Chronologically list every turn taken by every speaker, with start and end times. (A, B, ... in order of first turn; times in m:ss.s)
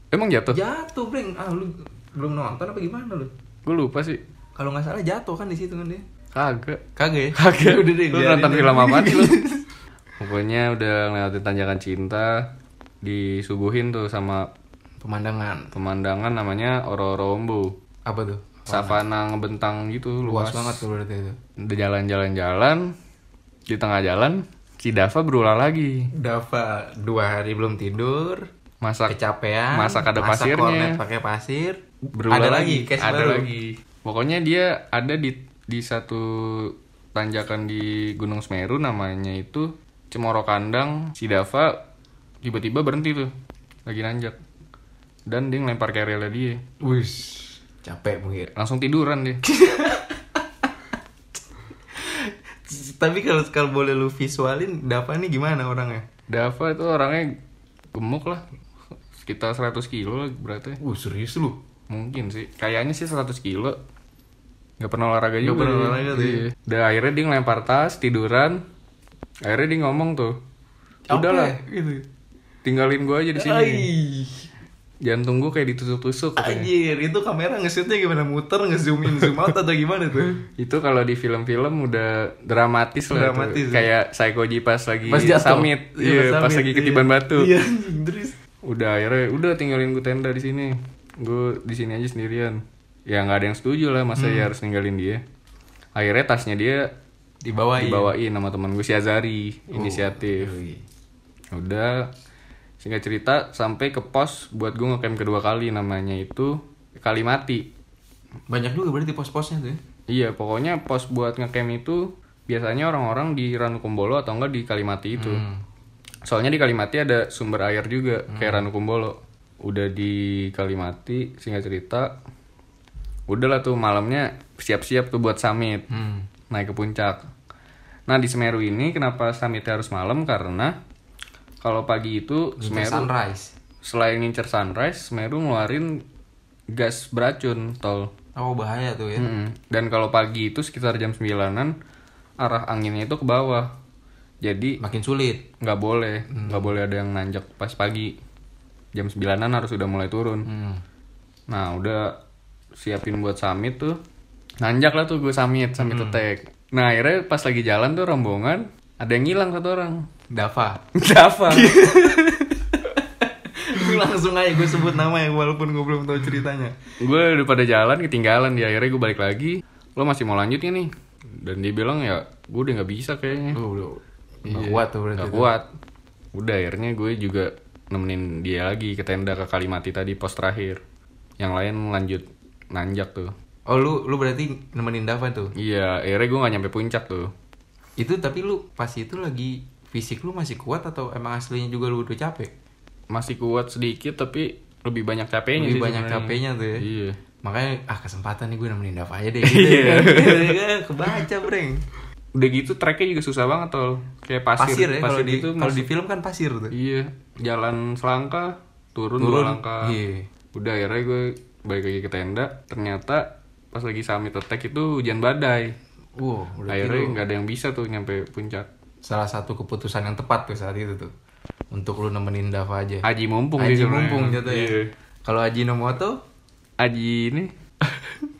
0:00.1-0:00.6 A
0:00.5-0:03.3 B
0:03.6-0:04.2 A
0:04.6-0:06.0 B
0:06.3-0:06.8 A
0:07.0-0:09.6 B
0:07.3-0:09.4 A
0:10.2-0:12.4 A
0:13.0-0:14.5 A
0:15.0-0:15.7 B
0:15.7-0:17.7 A
0:18.0-0:19.0 B
0:18.7-0:20.8 A
0:20.2-0:21.4 B
0:21.6-0:22.9 A
0:23.7-0:26.1 A
0:26.1-0:28.4 B
0:28.8-0:29.1 A
0:29.1-0:31.8 B
0:29.7-0:31.0 A
0:32.1-0:41.8 A
0:32.3-0:33.5 B
0:42.4-0:43.3 A
0:43.8-0:44.4 A
0:45.3-0:46.6 A
0:46.8-0:48.5 B
0:48.5-0:49.4 A
0:49.4-0:50.7 B
0:51.9-0:56.1 B
0:56.3-0:57.4 A
0:57.9-0:58.4 A
0:59.2-1:00.8 A
1:00.8-1:01.6 B
1:01.9-1:03.8 A
1:04.8-1:08.6 A
1:05.4-1:06.5 B
1:09.4-1:10.4 A
1:11.1-1:12.0 B
1:11.1-1:11.6 A
1:12.6-1:13.9 A
1:13.3-1:14.5 B
1:15.0-1:16.7 A
1:16.4-1:20.4 B
1:20.6-1:27.5 A
1:23.1-1:23.9 B
1:25.1-1:28.4 B
1:28.6-1:35.2 A
1:34.2-1:34.5 B
1:36.0-1:36.9 A
1:37.4-1:38.1 B
1:37.8-1:40.5 A
1:39.7-1:40.8 B
1:41.5-1:42.1 A
1:42.8-1:47.7 A
1:48.5-1:49.8 B
1:50.1-1:55.4 A
1:55.2-1:55.6 B
1:56.2-2:02.1 A
1:58.3-1:58.6 B
2:03.3-2:05.8 A
2:05.9-2:06.3 B
2:06.5-2:07.2 A
2:08.1-2:10.7 A
2:11.6-2:13.1 A
2:12.6-2:13.5 B
2:13.8-2:16.0 A
2:16.7-2:18.1 A
2:18.4-2:19.3 B
2:19.2-2:21.7 A
2:22.4-2:23.7 A
2:24.4-2:24.8 A
2:24.8-2:25.4 B
2:25.6-2:28.2 A
2:26.3-2:26.7 B
2:28.9-2:30.5 A
2:30.4-2:30.8 B
2:31.5-2:32.1 A
2:32.7-2:34.0 A
2:34.6-2:40.1 A
2:35.8-2:36.2 B
2:40.3-2:40.8 B
2:40.9-2:41.9 A
2:41.5-2:46.7 B
2:47.0-2:53.6 A
2:53.5-2:55.5 B
2:54.5-2:55.7 A
2:56.3-3:00.8 A
3:01.4-3:03.3 A
3:03.7-3:05.5 B
3:05.6-3:07.3 A
3:08.0-3:12.5 B
3:13.1-3:17.2 A
3:15.6-3:16.8 B
3:17.4-3:21.8 B
3:19.4-3:20.6 A
3:22.3-3:25.9 A
3:24.6-3:26.7 B
3:26.7-3:30.0 A
3:29.2-3:30.3 B
3:30.5-3:35.8 A
3:36.2-3:37.2 B
3:36.7-3:38.7 A
3:39.0-3:41.1 B
3:41.7-3:43.0 B
3:43.0-3:44.9 A
3:43.6-3:46.2 B
3:46.8-3:47.5 A